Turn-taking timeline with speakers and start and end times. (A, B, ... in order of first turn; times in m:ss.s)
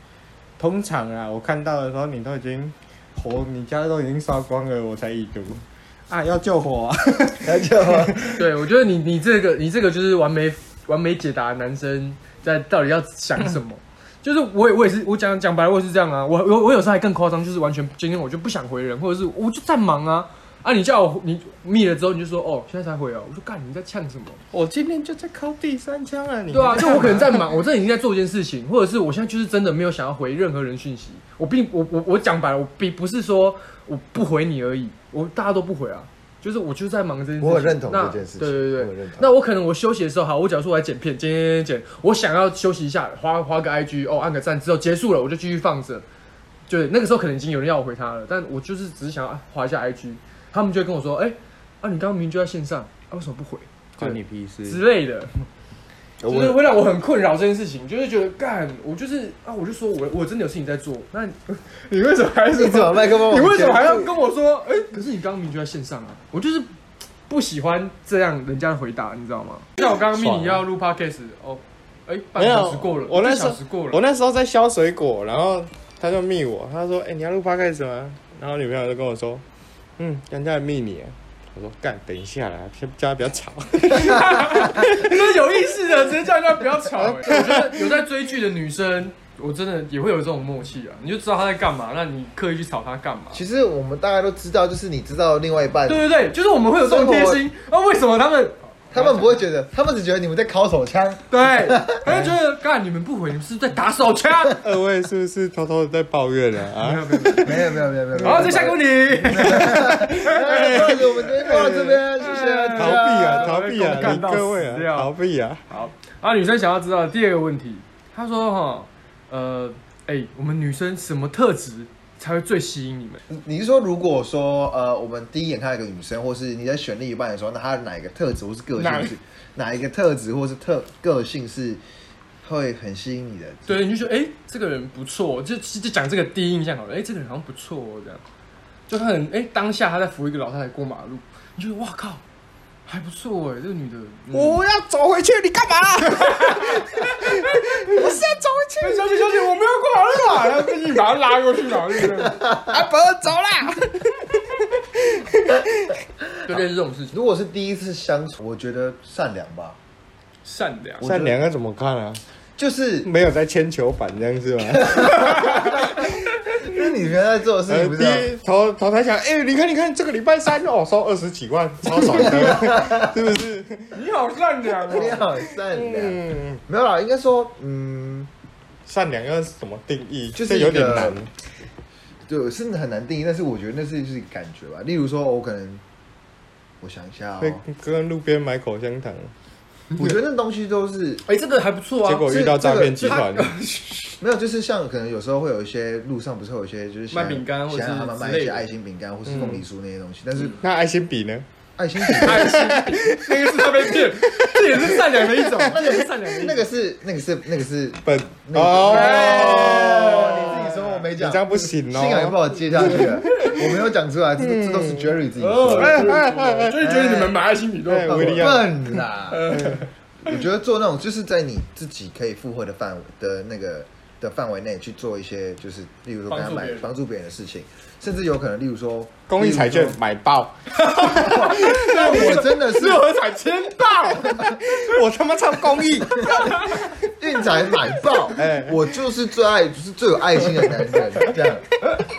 0:00.6-0:08.3 A
0:07.4-0:08.4 B
0:08.3-0:24.4 C
0:24.5-0:27.5 A
0:26.5-0:46.0 C
0:37.4-0:39.3 B
0:46.7-0:55.4 C
0:54.0-0:54.8 A
0:56.2-0:56.6 B
0:56.2-1:06.7 C
1:02.5-1:04.1 B
1:07.3-1:14.0 C
1:09.8-1:10.6 A
1:12.4-1:19.4 A
1:20.0-1:25.1 A
1:23.9-1:33.4 C
1:27.0-1:27.8 A
1:33.3-1:36.1 B
1:35.9-1:39.4 C
1:36.8-1:37.4 B
1:38.9-1:42.4 B
1:41.3-1:44.6 C
1:44.5-1:47.5 A
1:46.8-1:50.1 C
1:47.4-1:53.5 B
1:49.4-1:52.0 A
1:52.2-1:55.1 C
1:52.8-1:55.6 A
1:55.7-2:03.2 C
2:03.3-2:11.8 B
2:08.8-2:09.1 C
2:12.4-2:13.8 B
2:13.7-2:18.2 C
2:18.9-2:22.2 C
2:22.9-2:24.6 C
2:24.3-2:29.2 A
2:26.2-2:28.1 C
2:28.8-2:32.4 C
2:32.6-2:36.0 A
2:36.4-2:37.1 C
2:37.1-2:39.8 B
2:40.4-2:41.1 C
2:41.0-2:41.4 B
2:41.0-2:42.2 A
2:42.6-2:43.1 B
2:43.0-2:46.1 A
2:45.0-2:45.5 B
2:46.6-2:48.3 B
2:47.7-2:54.0 A
2:52.3-2:53.1 B
2:53.9-2:55.2 C
2:54.9-2:58.3 B
2:55.7-2:56.6 A
2:58.9-3:01.3 A
3:00.4-3:01.2 B
3:02.3-3:05.8 B
3:06.8-3:07.6 B
3:07.4-3:09.3 A
3:10.0-3:11.2 B
3:11.3-3:12.5 C
3:12.0-3:13.5 A
3:12.2-3:13.2 B
3:13.0-3:14.1 C
3:14.2-3:20.6 B
3:17.1-3:18.6 C
3:19.3-3:19.6 A
3:20.6-3:21.4 A
3:21.8-3:22.7 B
3:22.0-3:25.7 A
3:22.2-3:26.6 C
3:25.7-3:36.2 B
3:28.0-3:33.6 A
3:28.8-3:30.5 C
3:32.9-3:33.6 C
3:34.4-3:35.1 A
3:35.4-3:38.6 C
3:35.8-3:36.8 A
3:36.8-3:37.4 B
3:37.9-3:39.9 A
3:38.0-3:39.6 B
3:39.3-3:39.8 C
3:40.2-3:50.0 B
3:46.3-3:46.9 C
3:49.3-3:57.0 A
3:51.1-3:53.0 B
3:51.1-3:54.3 C
3:56.2-3:56.9 C
3:57.1-4:01.6 B
3:58.3-3:58.9 A